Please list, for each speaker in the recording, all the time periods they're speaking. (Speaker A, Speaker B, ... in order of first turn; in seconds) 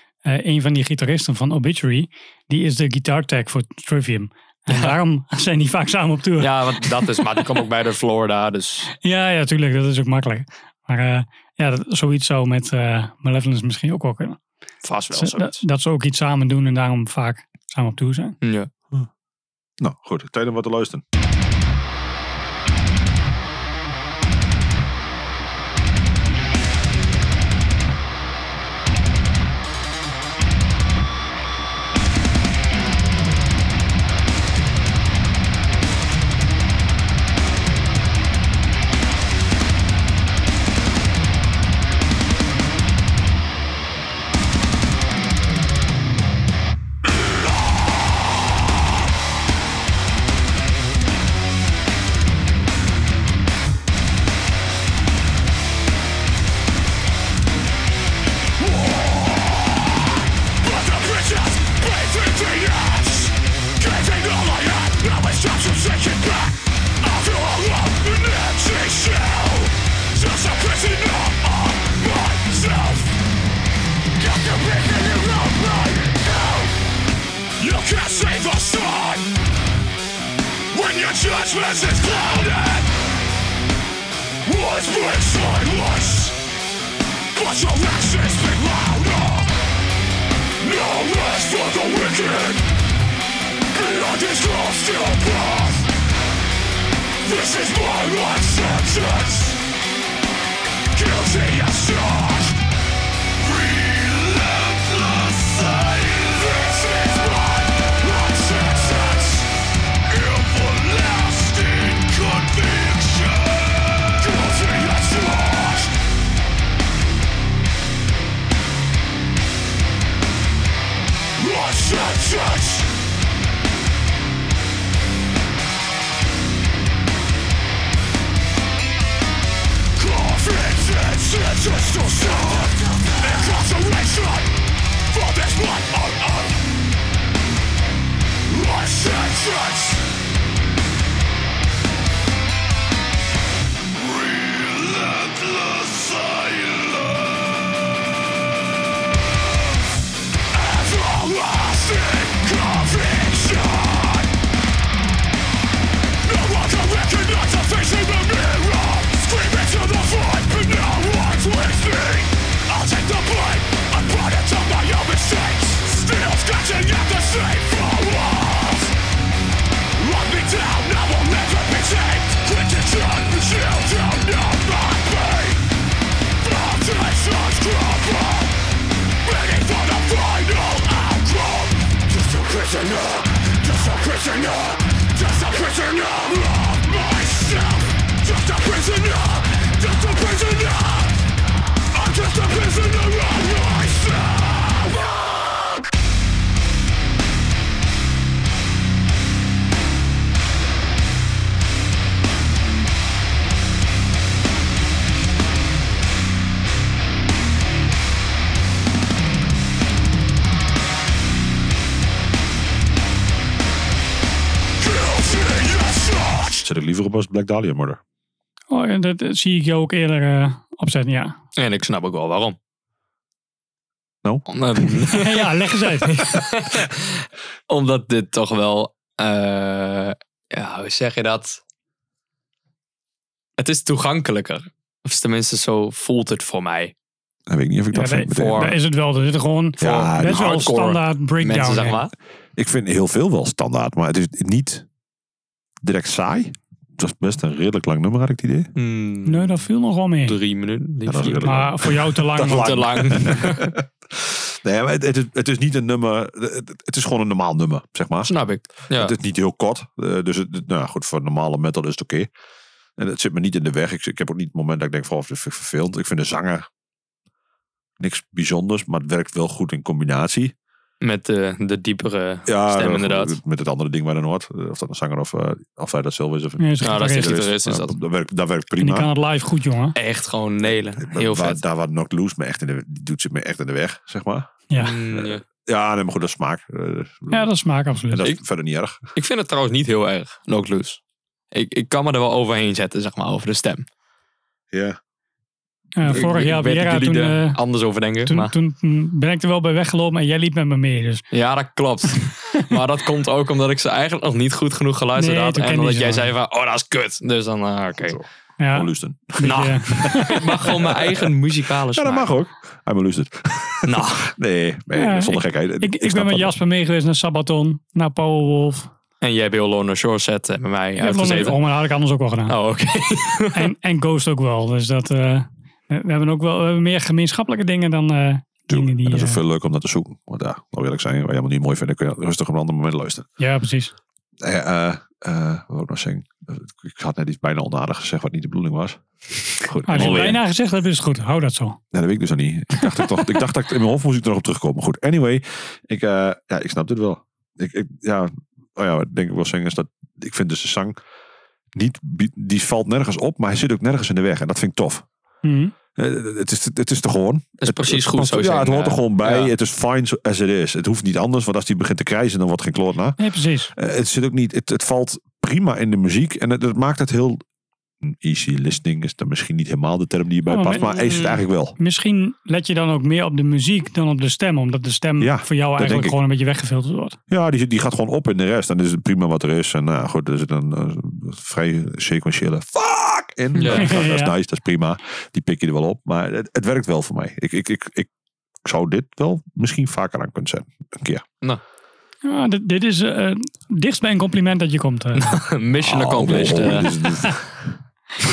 Speaker A: 0.3-7.2, 9.0-14.4, 15.1-18.4, 218.7-221.4, 225.1-226.3, 237.9-242.0, 249.3-250.4, 251.2-253.3, 276.6-277.3, 278.8-280.0, 287.3-288.3, 296.0-297.6, 298.2-301.2, 305.2-306.3, 308.6-310.4, 314.9-318.9, 321.0-322.6, 323.5-329.4, 333.4-333.9, 339.9-341.8, 342.8-343.1, 355.4-355.7, 363.2-363.7, 370.5-371.2, 371.8-377.2, 383.6-384.3, 392.2-395.4
Speaker B: 4.7-5.0, 6.4-8.9, 14.8-15.6, 18.4-18.7, 221.6-222.6, 224.5-231.6, 233.6-236.9, 238.3-238.8, 239.8-242.1, 248.8-249.6, 250.3-251.7, 252.3-253.7, 258.3-259.1, 271.0-273.4, 276.8-278.0, 279.9-281.6, 284.8-285.4, 289.1-291.0, 291.5-293.9, 296.1-298.5, 301.3-308.2, 309.4-312.3, 313.9-314.3, 319.2-321.6, 322.5-323.7, 340.0-340.4, 357.6-359.5, 370.7-371.4, 383.6-384.0, 395.2-396.9
Speaker C: 19.8-21.0, 216.6-218.0, 224.2-225.1, 237.5-238.8, 239.8-240.7, 242.6-244.9, 245.8-248.7, 251.1-262.3, 263.0-266.7, 268.0-270.5, 272.5-279.1, 280.7-287.5, 288.1-289.0, 294.7-295.0, 308.0-311.2, 311.9-316.6, 328.7-333.3, 334.4-339.0, 339.5-340.4, 341.9-351.0, 351.8-355.1, 355.9-363.2, 363.7-367.4, 368.0-371.8, 375.2-376.2, 377.3-388.1, 388.6-391.3, 395.8-397.8
Speaker D: 58.6-59.9, 60.6-73.2, 74.2-76.7, 77.6-79.3, 80.7-82.9, 84.5-86.4, 87.3-89.5, 90.6-92.7, 93.7-95.9, 97.2-99.6, 100.9-102.6, 103.4-109.5, 110.1-116.0, 121.4-122.9, 130.0-134.5, 135.1-136.6, 138.5-140.0, 144.0-147.6, 150.5-154.3, 156.2-168.9, 170.0-175.6, 176.4-178.6, 179.2-191.2, 191.9-195.1, 214.8-216.6